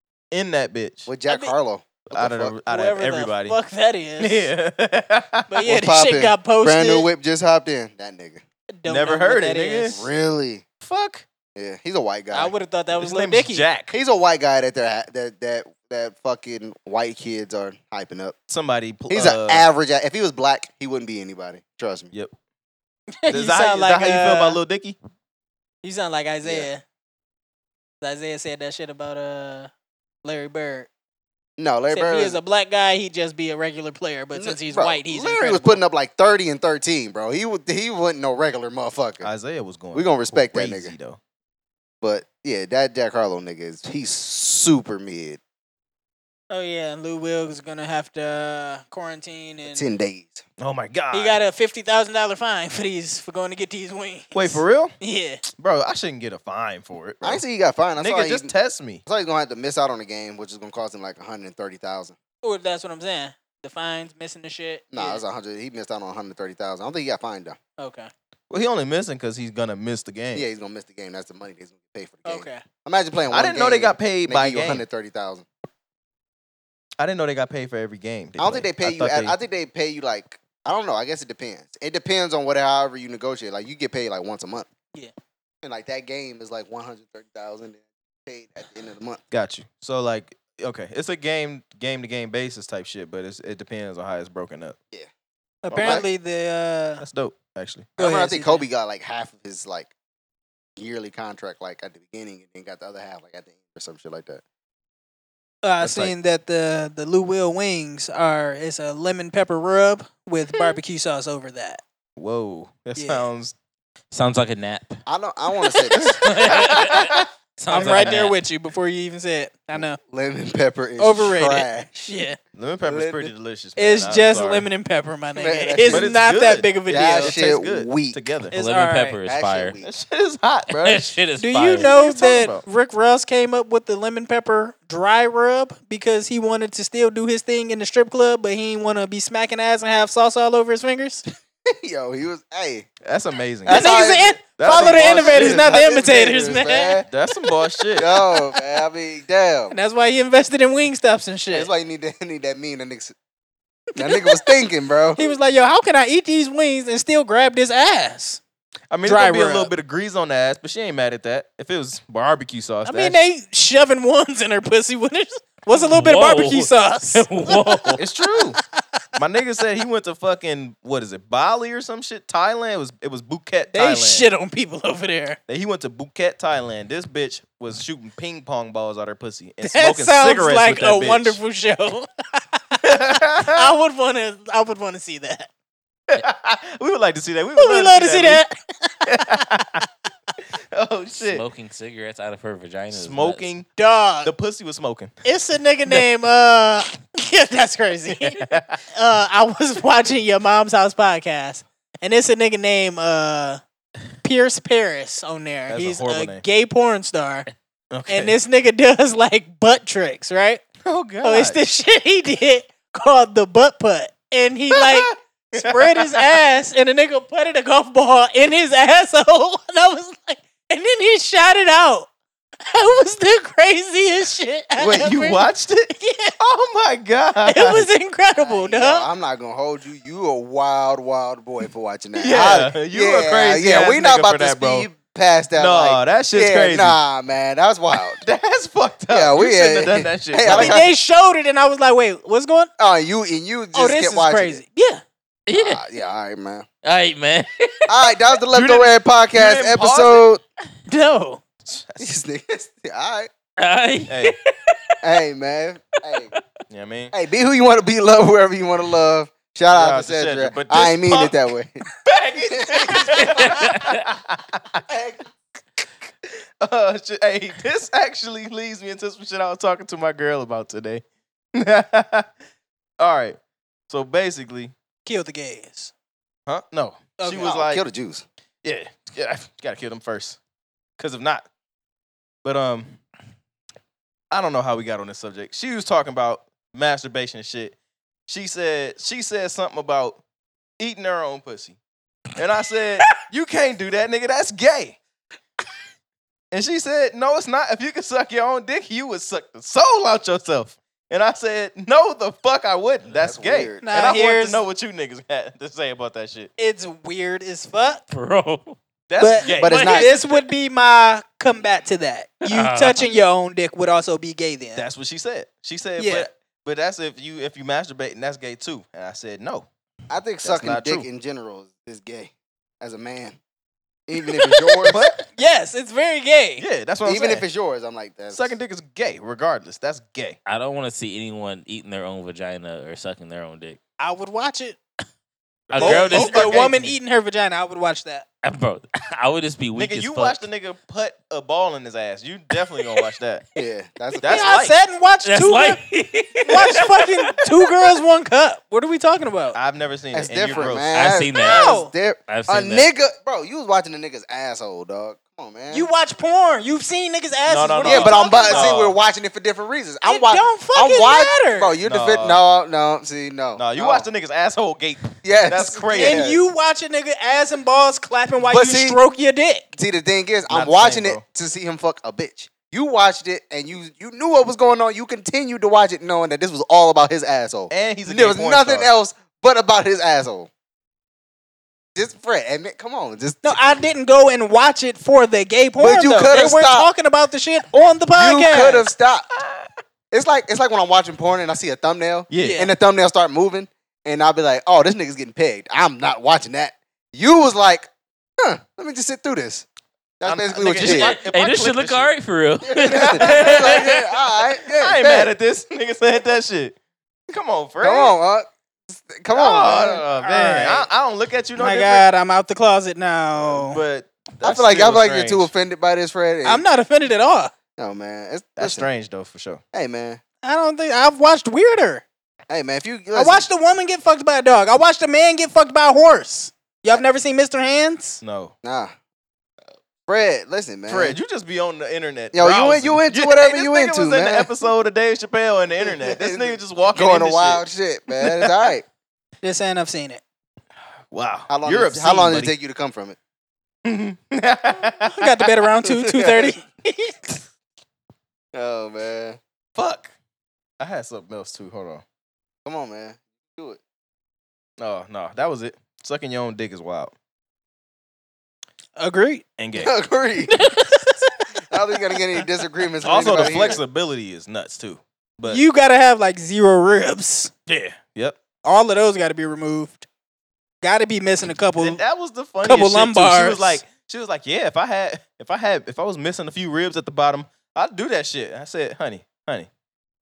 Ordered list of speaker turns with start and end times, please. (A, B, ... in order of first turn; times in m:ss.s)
0:00.3-0:01.1 A
0:01.1-0:02.5 B
0:01.3-0:01.5 C
0:02.1-0:03.6 A
0:02.6-0:04.5 C
0:04.2-0:05.7 A
0:05.5-0:07.1 C
0:05.6-0:08.4 B
0:08.7-0:10.0 C
0:08.8-0:10.1 A
0:09.9-0:10.6 B
0:10.8-0:11.2 A
0:11.6-0:12.5 B
0:12.3-0:13.7 C
0:12.9-0:13.9 A
0:13.9-0:18.3 B
0:18.5-0:19.6 A
0:19.1-0:22.1 B
0:23.2-0:24.6 C
0:23.3-0:25.0 A
0:25.8-0:26.8 C
0:28.0-0:29.7 C
0:30.2-0:30.9 C
0:31.6-0:32.4 B
0:31.9-0:35.8 C
0:34.3-0:39.3 B
0:39.2-0:41.2 A
0:39.9-0:40.9 B
0:42.0-0:45.4 B
0:46.5-0:49.9 C
0:49.6-0:50.4 B
0:50.6-0:51.4 A
0:51.1-0:55.4 C
0:54.3-0:54.9 A
0:55.6-0:57.4 A
0:57.2-0:58.5 B
0:58.0-0:59.0 A
0:59.1-1:02.2 B
1:02.4-1:05.2 C
1:04.9-1:07.6 B
1:07.8-1:08.1 C
1:08.5-1:10.4 A
1:10.3-1:15.4 B
1:12.2-1:12.6 C
1:13.3-1:14.8 A
1:17.0-1:19.3 A
1:18.4-1:24.7 B
1:25.6-1:29.2 B
1:29.3-1:34.8 A
1:35.6-1:37.0 C
1:35.7-1:36.0 A
1:35.8-1:36.1 B
1:37.0-1:37.9 A
1:38.0-1:38.6 C
1:38.0-1:39.9 B
1:40.8-1:44.4 B
1:45.6-1:51.8 C
1:45.8-1:46.1 A
1:50.5-1:50.8 A
1:52.2-1:53.5 A
1:53.0-1:53.2 C
1:54.1-1:55.0 D
1:55.0-1:56.2 B
1:55.9-1:58.4 D
1:56.0-1:57.2 A
1:57.7-2:00.0 C
1:57.8-1:58.2 A
1:59.8-2:02.2 B
2:01.0-2:02.4 C
2:02.5-2:04.7 A
2:02.8-2:03.3 B
2:03.8-2:07.3 C
2:05.3-2:06.1 B
2:05.9-2:08.5 A
2:06.9-2:08.2 B
2:08.5-2:09.2 C
2:08.5-2:09.8 D
2:09.2-2:09.9 B
2:09.8-2:11.1 A
2:10.7-2:11.9 D
2:11.4-2:21.2 C
2:11.7-2:12.6 A
2:21.6-2:22.9 B
2:23.0-2:24.0 A
2:23.6-2:27.1 B
2:23.7-2:27.0 C
2:24.6-2:25.7 A
2:27.1-2:28.2 A
2:28.0-2:29.8 B
2:29.7-2:31.7 C
2:31.5-2:33.1 B
2:34.0-2:34.4 C
2:34.0-2:35.2 B
2:35.1-2:38.4 C
2:38.9-2:43.2 A
2:39.0-2:39.7 C
2:42.8-2:48.4 C
2:45.7-2:48.0 D
2:48.0-2:48.6 A
2:49.2-2:54.3 A
2:53.7-2:55.4 C
2:55.5-3:01.4 A
2:59.6-3:05.5 C
3:02.8-3:03.7 A
3:06.1-3:08.4 A
3:07.6-3:09.8 C
3:09.0-3:09.8 A
3:10.7-3:11.4 A
3:11.2-3:13.5 D
3:12.9-3:13.7 A
3:13.8-3:14.3 C
3:14.2-3:15.1 A
3:15.2-3:18.4 C
3:18.1-3:18.8 A
3:18.9-3:23.6 C
3:24.2-3:27.5 C
3:25.7-3:26.4 A
3:27.9-3:28.3 A
3:28.1-3:30.6 C
3:30.8-3:31.6 A
3:31.2-3:42.1 C
3:34.7-3:36.4 A
3:42.6-3:46.3 C
3:44.8-3:47.9 A
3:47.4-3:49.1 C
3:48.4-3:58.2 B
3:52.1-3:54.9 A
3:55.6-3:57.0 A
3:58.2-4:00.8 A
3:59.1-4:00.9 B
4:00.4-4:02.7 C
4:02.8-4:04.6 B
4:03.7-4:05.0 C
4:05.5-4:05.8 D
4:05.5-4:06.6 B
4:06.8-4:08.0 D
4:07.9-4:10.4 B
4:08.5-4:10.2 A
4:10.9-4:11.4 C
4:11.6-4:12.1 A
4:12.0-4:13.3 B
4:13.6-4:14.9 D
4:14.1-4:14.3 A
4:15.0-4:16.3 B
4:16.7-4:17.1 A
4:17.1-4:21.8 B
4:19.7-4:21.4 A
4:22.0-4:24.8 A
4:22.4-4:23.6 B
4:23.1-4:24.0 D
4:24.8-4:25.2 B
4:26.6-4:31.0 A
4:31.5-4:32.3 A
4:33.0-4:33.4 A
4:33.9-4:34.7 A
4:35.0-4:35.9 C
4:36.5-4:37.8 A
4:37.2-4:37.5 C
4:37.4-4:38.2 B
4:38.6-4:40.4 A
4:41.0-4:41.4 A
4:42.4-4:43.0 A
4:44.3-4:47.7 A
4:48.3-4:50.2 A
4:50.8-4:51.8 A
4:52.3-4:55.0 A
4:56.5-5:06.5 A
5:03.1-5:03.9 B
5:03.8-5:04.6 C
5:06.6-5:08.0 C
5:08.1-5:08.8 D
5:09.1-5:10.0 A
5:09.2-5:14.8 C
5:09.5-5:10.4 D
5:09.6-5:10.1 B
5:12.4-5:13.0 D
5:14.8-5:19.7 A
5:16.0-5:16.3 C
5:20.1-5:23.4 B
5:20.4-5:21.0 A
5:24.1-5:25.0 B
5:24.4-5:26.6 C
5:24.9-5:25.2 A
5:26.6-5:27.4 A
5:27.0-5:28.5 B
5:28.3-5:30.4 A
5:30.4-5:33.8 D
5:34.0-5:34.8 C
5:35.7-5:36.9 A
5:35.7-5:36.9 D
5:35.8-5:38.2 C
5:38.4-5:40.4 D
5:39.8-5:43.4 A
5:43.6-5:44.5 B
5:44.2-5:44.7 A
5:44.2-5:45.8 C
5:45.2-5:47.9 D
5:46.5-5:49.6 C
5:49.5-5:50.9 A
5:50.1-5:55.9 B
5:50.9-5:52.9 D
5:51.4-5:51.9 C
5:55.7-5:58.7 C
5:57.5-5:59.0 A
5:57.8-6:04.1 B
6:00.0-6:01.7 C
6:01.8-6:02.4 A
6:03.6-6:06.3 A
6:05.2-6:06.4 B
6:05.9-6:09.6 C
6:08.4-6:09.0 B
6:09.7-6:20.5 B
6:10.5-6:11.2 A
6:17.7-6:18.9 A
6:21.9-6:23.6 B
6:23.4-6:28.9 C
6:25.8-6:26.9 B
6:28.1-6:29.3 B
6:29.4-6:29.7 A
6:30.1-6:37.9 B
6:32.3-6:32.7 A
6:32.4-6:32.7 C
6:38.4-6:39.6 B
6:40.2-6:41.2 B
6:40.2-6:42.1 A
6:40.8-6:44.1 D
6:42.7-6:45.3 B
6:42.8-6:43.8 A
6:44.7-6:46.7 A
6:47.3-6:48.1 A
6:47.8-6:50.0 B
6:49.3-6:52.1 A
6:50.2-6:50.9 C
6:51.6-6:53.8 C
6:53.3-6:55.5 A
6:54.4-6:56.6 B
6:56.4-6:57.5 C
6:57.8-6:58.9 B
6:58.6-6:59.6 A
6:59.7-7:00.2 B
7:00.4-7:02.0 C
7:02.5-7:03.4 B
7:03.1-7:08.2 C
7:08.2-7:08.5 A
7:08.6-7:08.9 B
7:10.1-7:11.2 B
7:10.9-7:17.6 A
7:12.3-7:14.5 B
7:15.8-7:18.8 B
7:18.2-7:18.7 A
7:19.4-7:20.2 C
7:21.1-7:22.5 A
7:21.5-7:23.2 B
7:23.8-7:25.5 A
7:25.1-7:27.2 C
7:25.8-7:26.6 B
7:28.5-7:29.4 B
7:29.8-7:30.1 A
7:30.8-7:32.0 A
7:32.6-7:33.8 B
7:34.8-7:37.1 A
7:39.0-7:39.4 C
7:39.6-7:39.9 A
7:39.8-7:40.6 B
7:40.5-7:41.3 C
7:41.7-7:43.8 B
7:43.0-7:45.6 A
7:43.3-7:43.7 C
7:45.4-7:47.5 C
7:47.7-7:48.4 A
7:48.6-7:50.0 C
7:50.8-7:52.0 C
7:51.8-7:59.7 A
7:52.6-7:53.8 C